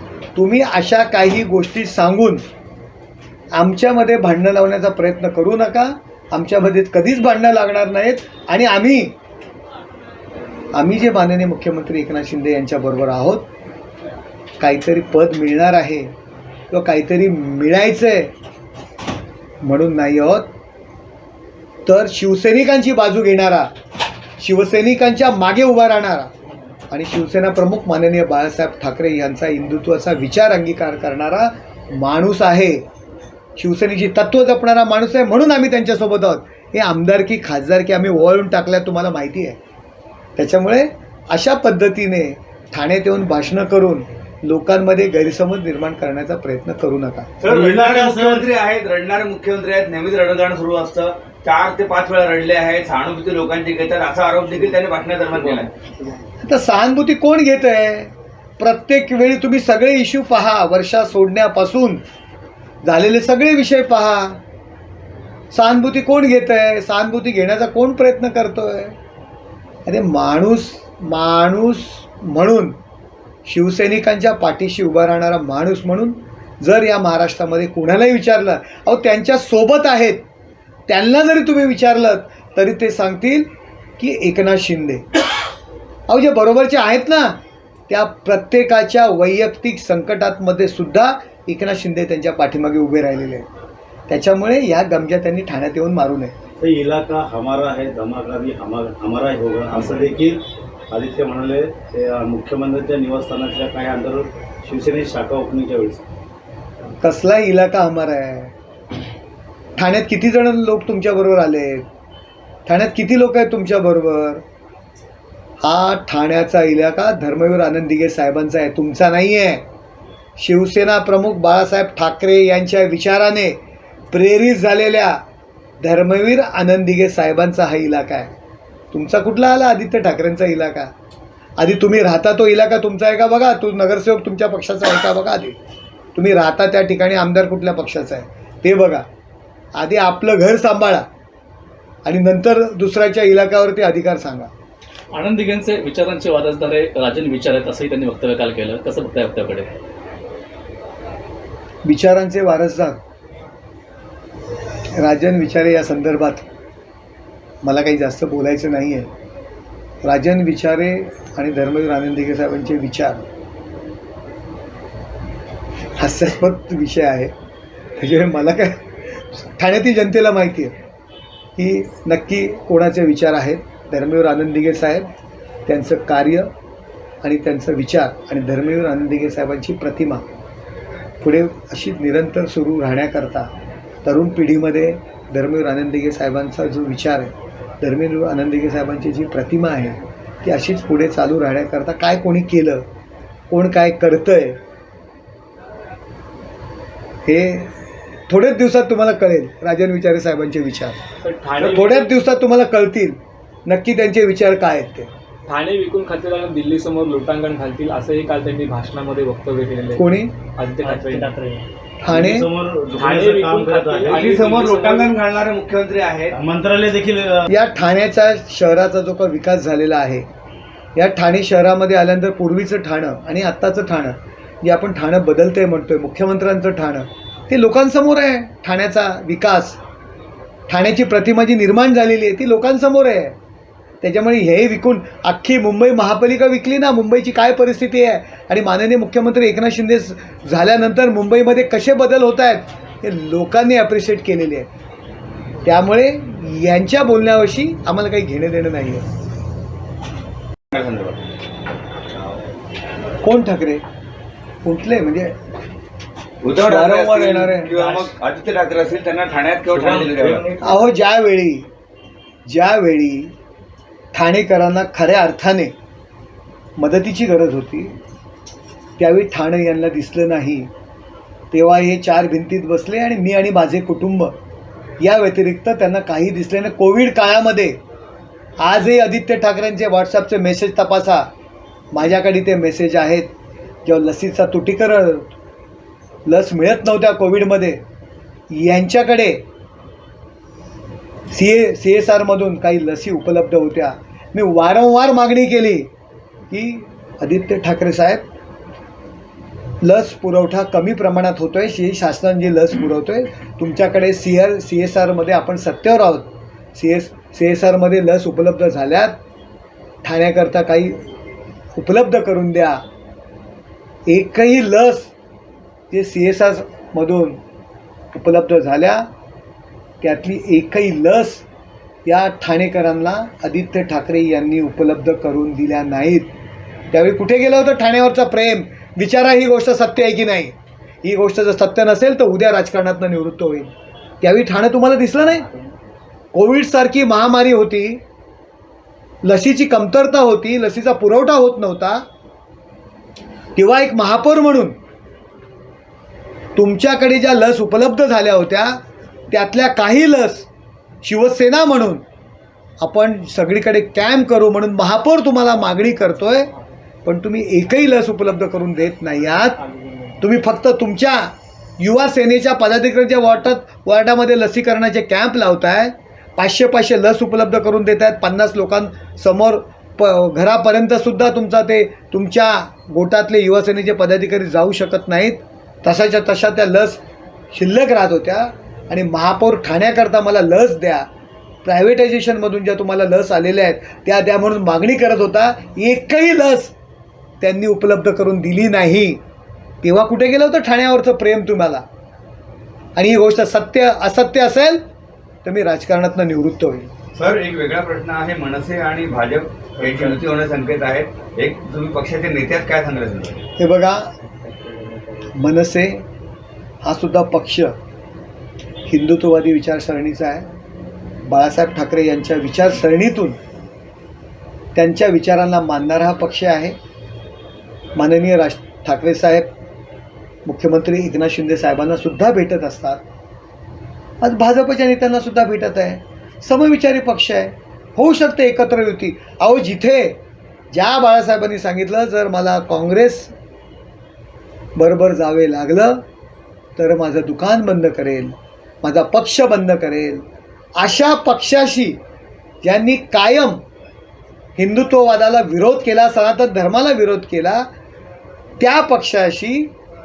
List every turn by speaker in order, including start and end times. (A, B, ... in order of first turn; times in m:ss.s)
0:00.3-0:02.4 A
0:03.5-0:09.2 A
0:10.7-0:13.5 A
0:14.6-0:16.1 A
0:16.7-0:18.3 A
0:19.6-0:20.5 A
0:21.8-0:23.7 A
0:24.4-0:26.3 A
0:26.9-0:32.8 A
0:33.6-0:39.6 A
0:40.4-0:47.3 A
0:47.4-0:55.7 B
0:47.5-0:48.5 C
0:56.4-1:02.0 A
1:02.8-1:04.4 A
1:05.5-1:09.0 A
1:09.8-1:12.8 A
1:13.4-1:20.2 A
1:20.9-1:23.5 A
1:24.0-1:25.0 A
1:26.1-1:33.4 A
1:34.1-1:36.3 A
1:36.6-1:46.0 C
1:47.0-1:48.5 A
1:49.8-1:51.8 A
1:52.7-1:54.4 A
1:55.6-1:59.6 A
2:00.4-2:03.6 A
2:04.1-2:05.2 A
2:05.8-2:08.3 A
2:08.9-2:10.9 A
2:11.6-2:15.6 A
2:16.1-2:19.0 A
2:19.8-2:21.0 A
2:22.0-2:24.5 A
2:25.1-2:29.7 D
2:31.8-2:33.0 A
2:34.9-2:36.5 A
2:37.6-2:39.1 A
2:40.0-2:43.3 A
2:46.0-2:47.3 A
2:48.0-2:50.8 A
2:51.6-2:55.1 A
2:55.6-2:56.5 A
2:57.2-3:00.2 A
3:01.2-3:03.5 A
3:04.0-3:12.9 A
3:13.5-3:14.6 A
3:17.2-3:17.7 A
3:18.3-3:21.0 A
3:21.2-3:22.1 E
3:21.6-3:25.1 A
3:25.5-3:31.7 E
3:29.9-3:30.3 A
3:32.0-3:32.5 A
3:32.1-3:34.3 C
3:32.9-3:35.2 E
3:34.1-3:36.3 B
3:36.3-3:37.5 C
3:37.5-3:40.2 A
3:40.9-3:49.8 A
3:50.7-3:53.4 A
3:54.0-4:04.7 A
4:05.6-4:09.0 A
4:10.7-4:11.3 B
4:13.2-4:13.8 A
4:14.6-4:15.3 A
4:16.4-4:20.6 B
4:16.5-4:18.0 A
4:19.7-4:20.5 C
4:20.6-4:21.7 A
4:22.4-4:23.3 A
4:24.1-4:25.7 A
4:26.8-4:27.9 A
4:29.0-4:30.7 A
4:31.5-4:34.4 A
4:35.0-4:37.8 A
4:38.6-4:41.3 A
4:41.9-4:43.3 A
4:43.8-4:45.3 A
4:46.2-4:47.8 A
4:48.5-4:49.4 A
4:51.3-4:55.9 A
4:56.5-4:58.2 A
4:59.8-5:09.2 A
5:10.0-5:11.0 A
5:11.8-5:12.8 A
5:14.0-5:15.1 A
5:15.9-5:17.4 A
5:18.1-5:19.1 A
5:20.0-5:21.4 A
5:22.0-5:26.3 A
5:26.9-5:35.5 A
5:36.3-5:38.0 A
5:39.2-5:42.0 A
5:43.6-5:44.8 A
5:46.5-5:48.8 A
5:49.3-5:50.5 A
5:51.0-5:52.0 A
5:52.8-5:56.5 A
5:57.0-5:59.6 A
5:59.7-6:00.0 E
6:00.2-6:17.0 A
6:17.5-6:21.1 A
6:21.6-6:26.7 A
6:27.4-6:29.2 A
6:29.8-6:31.8 A
6:33.0-6:34.8 A
6:35.4-6:36.9 A
6:37.1-6:43.4 B
6:43.6-6:44.1 A
6:45.3-6:46.0 A
6:46.8-6:47.7 A
6:48.9-6:50.5 A
6:51.2-6:53.4 A
6:54.7-6:56.8 A
6:58.0-6:59.5 A
7:00.4-7:03.0 A
7:04.2-7:10.2 A
7:10.7-7:13.3 A
7:14.8-7:16.0 A
7:16.8-7:20.2 A
7:20.8-7:22.0 A
7:22.6-7:23.6 A
7:24.6-7:27.7 A
7:28.6-7:29.7 A